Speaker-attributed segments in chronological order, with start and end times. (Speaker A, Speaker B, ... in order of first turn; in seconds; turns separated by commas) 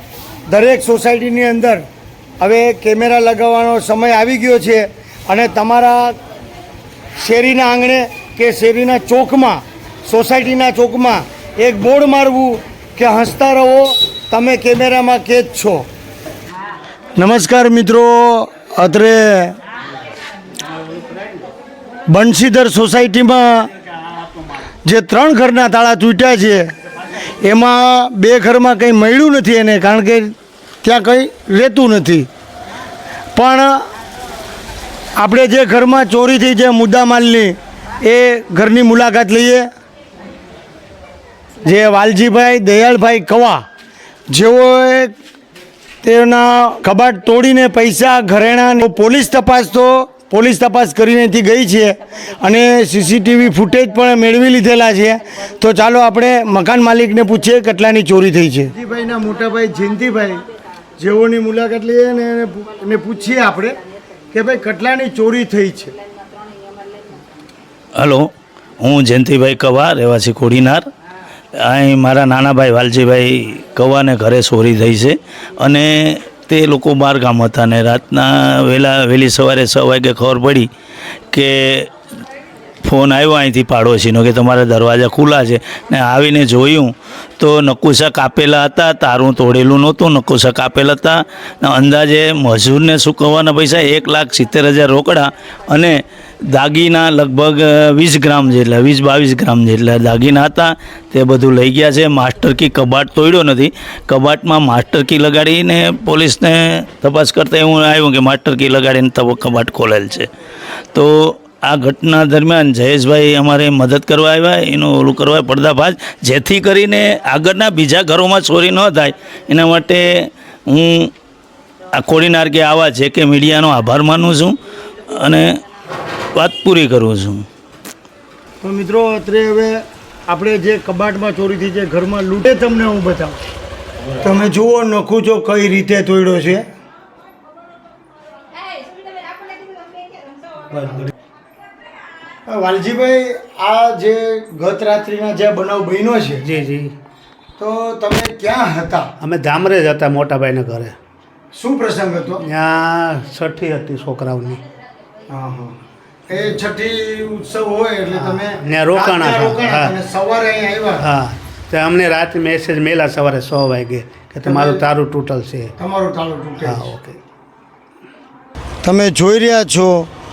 Speaker A: 0.5-1.8, Speaker A: 2.4-6.2, Speaker A: 7.2-15.8, Speaker A: 17.2-19.6, Speaker A: 22.1-23.7, Speaker A: 24.8-26.7, Speaker A: 27.4-32.3, Speaker A: 33.4-33.8, Speaker A: 35.1-39.7, Speaker A: 41.6-43.6, Speaker A: 44.3-45.1, Speaker A: 46.0-60.4, Speaker A: 61.0-63.8, Speaker A: 64.3-65.9, Speaker B: 68.0-70.8, Speaker B: 71.6-80.7, Speaker B: 81.3-81.9, Speaker B: 82.8-96.0, Speaker B: 96.5-110.3, Speaker B: 110.9-121.1, Speaker B: 122.0-124.5, Speaker B: 125.1-125.6, Speaker B: 126.3-127.5, Speaker A: 128.6-133.4, Speaker A: 134.2-136.7, Speaker C: 140.7-141.1, Speaker A: 142.4-146.4, Speaker C: 146.4-146.9, Speaker A: 147.6-149.1, Speaker C: 149.2-150.9, Speaker A: 151.5-152.4, Speaker C: 152.4-154.6, Speaker A: 155.3-155.8, Speaker A: 156.3-161.1, Speaker C: 158.1-159.9, Speaker C: 161.0-165.7, Speaker A: 164.4-164.8, Speaker A: 165.8-166.9, Speaker C: 166.6-167.2, Speaker A: 168.8-170.1